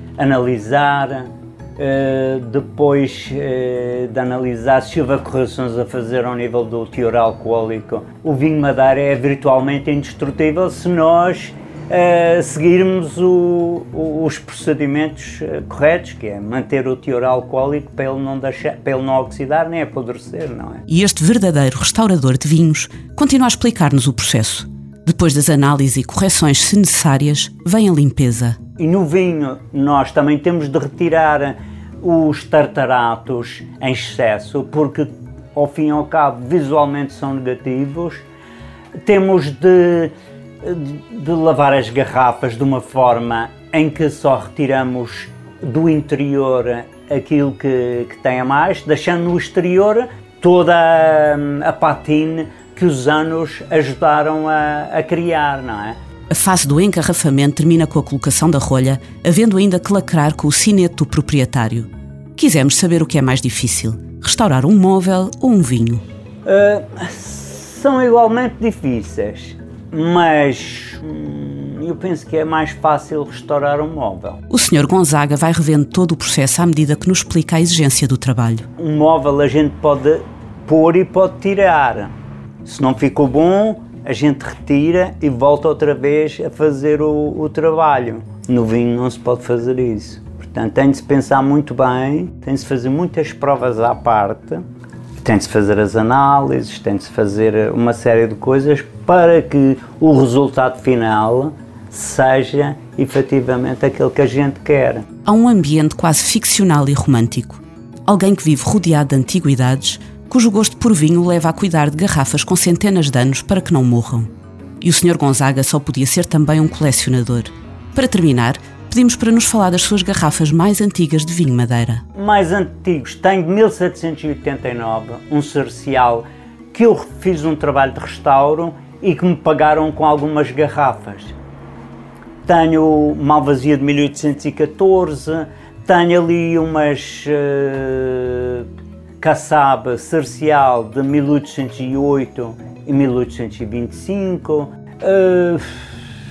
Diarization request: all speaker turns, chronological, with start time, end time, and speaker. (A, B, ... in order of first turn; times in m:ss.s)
0:00.2-0:20.8 A
0:20.9-0:28.6 B
0:28.8-0:38.2 A
0:39.0-0:56.0 A
0:56.3-1:06.0 B
1:06.4-1:14.4 A
1:14.5-1:18.7 B
1:18.8-1:22.1 A
1:22.6-1:34.6 A
1:35.2-1:45.0 A
1:45.2-1:54.3 B
1:54.8-2:02.0 B
2:02.1-2:11.4 A
2:12.4-2:18.7 A
2:19.2-2:25.8 A